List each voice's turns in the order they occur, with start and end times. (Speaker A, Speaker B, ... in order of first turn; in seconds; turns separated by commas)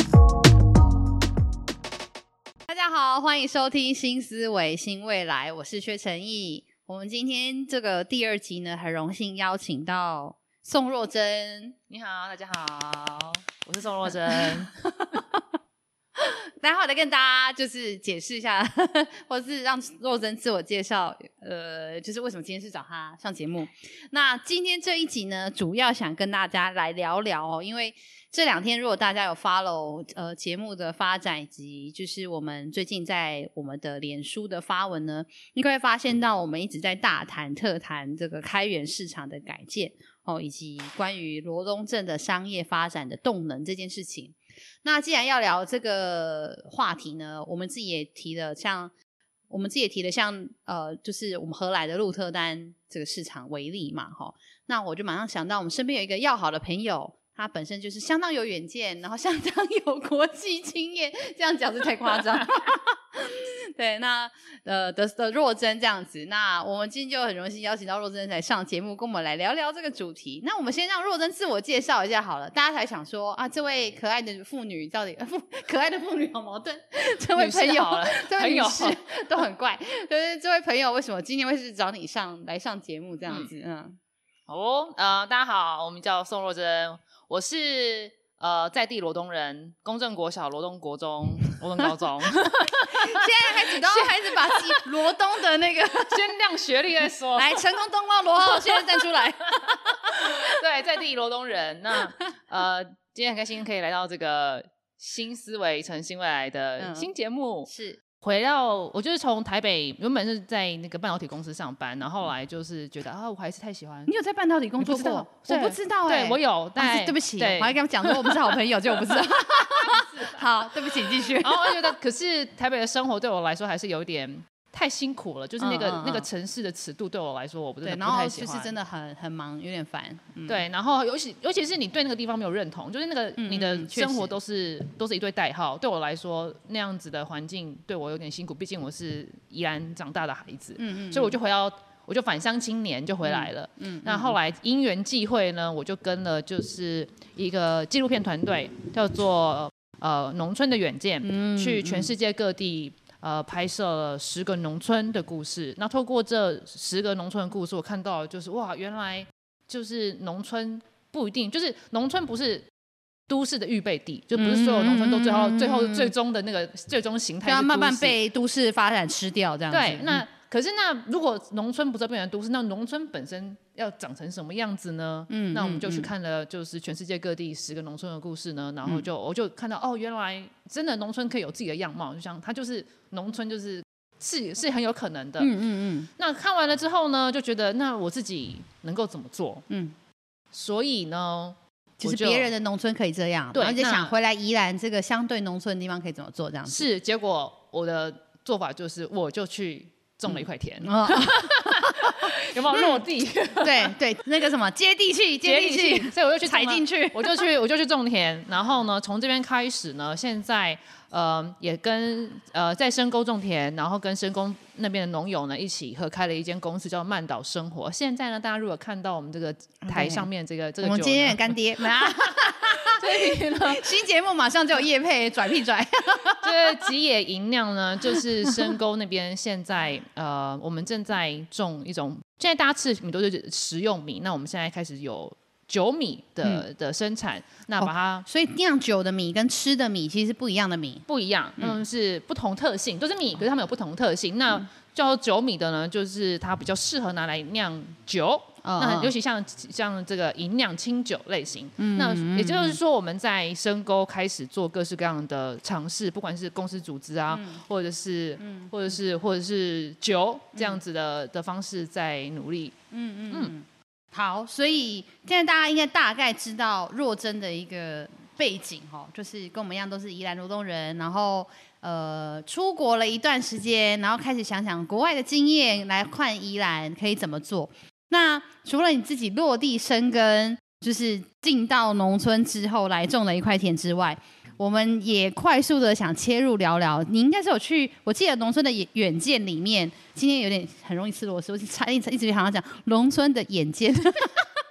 Speaker A: 2.7-11.8, Speaker B: 11.9-14.7, Speaker A: 14.3-15.4, Speaker A: 16.2-48.9, Speaker A: 49.5-84.0, Speaker B: 77.3-79.0, Speaker B: 84.5-94.8, Speaker A: 92.5-96.2, Speaker B: 96.0-97.6, Speaker A: 97.4-100.6, Speaker B: 98.5-98.8, Speaker B: 99.7-107.7, Speaker A: 106.8-107.1, Speaker A: 107.7-108.0, Speaker B: 108.2-114.1, Speaker A: 114.1-121.9, Speaker B: 114.8-118.5, Speaker B: 119.8-120.3, Speaker B: 121.0-128.7, Speaker A: 125.6-126.3, Speaker A: 127.8-130.6, Speaker B: 130.4-162.7, Speaker A: 133.4-134.3, Speaker A: 140.8-141.3, Speaker A: 143.2-144.4, Speaker A: 151.2-152.1, Speaker B: 163.3-168.1, Speaker A: 164.3-166.1, Speaker A: 167.4-170.2, Speaker B: 169.7-185.5, Speaker A: 175.3-176.1, Speaker A: 185.4-186.1, Speaker B: 186.2-189.7, Speaker A: 189.7-189.9, Speaker B: 190.5-192.5, Speaker A: 192.0-196.8, Speaker B: 193.5-194.1, Speaker B: 196.7-203.9, Speaker A: 200.3-203.0, Speaker A: 203.6-207.5, Speaker B: 205.4-223.8, Speaker A: 219.8-220.2, Speaker A: 220.8-226.9, Speaker B: 226.4-238.2, Speaker A: 228.2-228.7, Speaker A: 237.8-241.0, Speaker B: 241.1-262.7, Speaker A: 248.6-249.1, Speaker A: 251.8-252.8, Speaker A: 257.3-257.6, Speaker A: 258.4-258.7, Speaker A: 262.9-294.5